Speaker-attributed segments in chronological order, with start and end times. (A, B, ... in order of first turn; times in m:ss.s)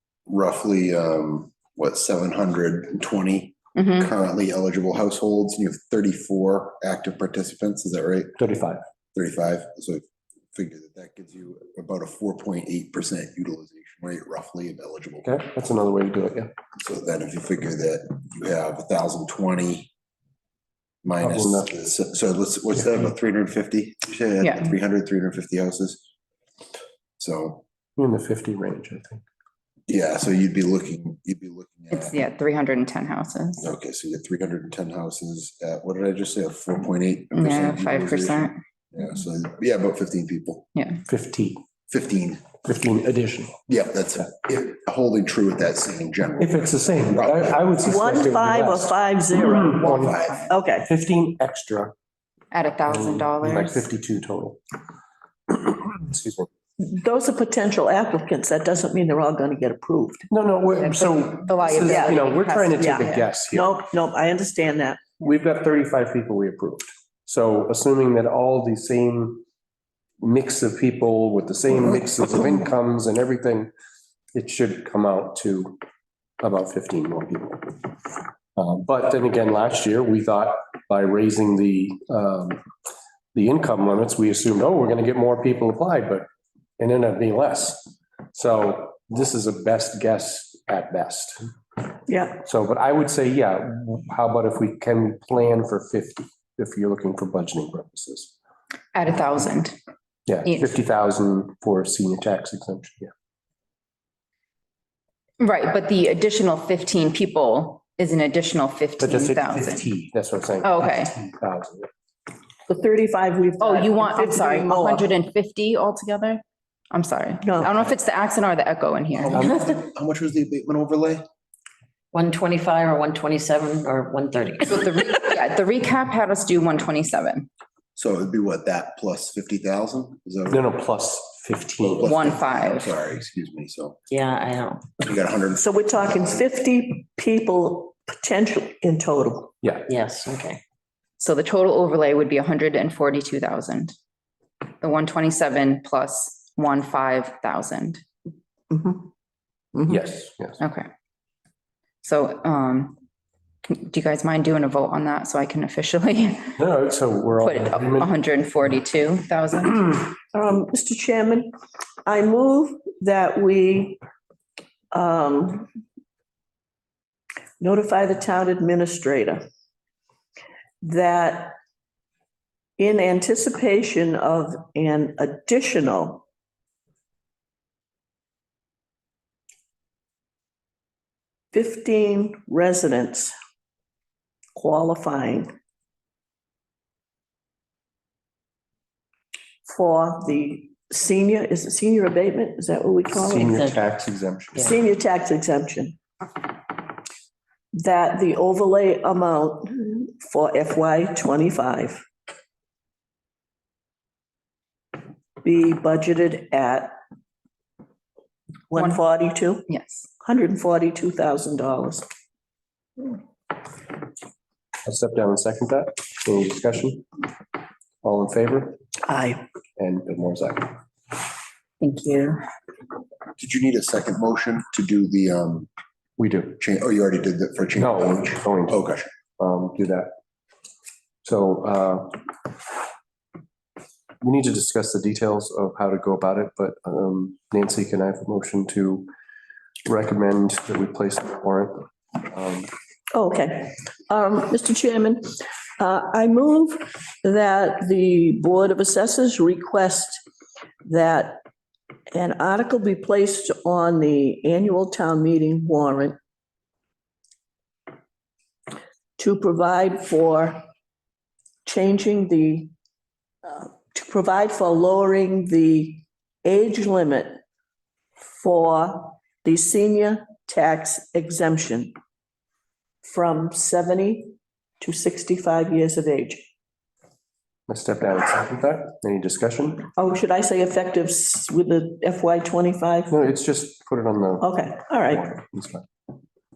0:00.3-0:08.4 A
0:03.8-0:04.0 B
0:08.4-0:08.8 C
0:09.1-0:15.3 A
0:15.2-0:16.5 C
0:16.8-0:19.9 A
0:21.0-0:26.0 A
0:21.2-0:21.7 C
0:24.4-0:24.7 B
0:27.2-0:27.6 A
0:28.0-0:29.2 C
0:29.9-0:32.2 A
0:31.9-0:33.6 B
0:33.6-0:40.7 A
0:37.3-0:38.6 B
0:40.7-0:41.0 B
0:41.1-0:41.6 C
0:41.9-0:42.4 A
0:42.6-0:43.6 C
0:43.7-0:47.6 A
0:46.4-0:51.9 C
0:47.8-0:50.0 D
0:49.5-0:50.5 B
0:50.0-0:50.4 A
0:50.5-0:50.9 D
0:52.5-0:53.9 B
0:52.9-0:54.6 C
0:55.5-0:56.5 C
0:56.8-1:00.2 D
1:00.3-1:03.8 C
1:00.8-1:03.3 B
1:01.8-1:02.2 D
1:02.7-1:05.0 D
1:05.2-1:09.4 C
1:10.2-1:13.7 C
1:14.3-1:15.8 C
1:16.4-1:17.9 C
1:18.6-1:22.6 C
1:23.3-1:26.2 C
1:26.8-1:31.4 C
1:32.1-1:32.4 D
1:32.4-1:38.3 C
1:38.9-1:39.8 B
1:40.3-1:43.1 C
1:40.4-1:40.7 B
1:45.4-1:49.9 B
1:49.0-1:51.9 C
1:50.6-1:51.2 B
1:52.7-1:55.1 D
1:53.6-1:59.5 B
1:57.4-1:57.7 D
1:59.2-2:01.2 A
2:02.1-2:05.2 E
2:04.7-2:07.5 B
2:08.0-2:10.6 A
2:10.5-2:12.2 C
2:11.8-2:14.0 A
2:12.0-2:12.9 B
2:14.1-2:14.9 E
2:15.0-2:16.1 A
2:15.6-2:19.5 D
2:19.6-2:19.9 C
2:19.9-2:20.6 E
2:21.2-2:23.9 B
2:24.8-2:28.0 B
2:28.7-2:29.1 D
2:29.7-2:30.0 D
2:29.9-2:30.6 C
2:30.6-2:30.9 B
2:32.0-2:33.0 B
2:33.6-2:36.6 B
2:36.6-2:38.1 C
2:37.4-2:40.1 B
2:40.3-2:41.5 D
2:42.0-2:44.0 D
2:44.9-2:45.7 D
2:47.6-2:49.4 D
2:50.8-2:51.6 D
2:52.8-2:56.2 D
3:01.5-3:03.3 D
3:04.6-3:05.5 D
3:09.7-3:13.6 D
3:13.1-3:14.7 C
3:13.4-3:13.8 E
3:14.6-3:16.0 D
3:17.7-3:22.0 D
3:25.4-3:27.0 D
3:28.7-3:29.6 D
3:28.7-3:29.0 B
3:29.7-3:30.1 B
3:30.2-3:32.1 D
3:34.8-3:37.1 C
3:38.0-3:38.8 C
3:39.0-3:39.4 D
3:39.8-3:40.8 C
3:41.8-3:42.4 B
3:43.4-3:45.7 A
3:46.2-3:46.6 C
3:46.6-3:49.1 A
3:47.8-3:48.8 C
3:49.4-3:50.1 C
3:51.2-3:52.3 C
3:54.2-3:59.1 C
3:59.8-4:02.7 C
4:03.1-4:10.2 D
4:10.8-4:11.4 D
4:12.1-4:16.2 D
4:19.2-4:20.6 D
4:21.6-4:22.7 D
4:23.4-4:27.4 D
4:28.3-4:31.9 D
4:33.0-4:36.4 D
4:37.7-4:39.9 C
4:40.0-4:43.2 D
4:43.1-4:45.9 C
4:44.4-4:45.3 D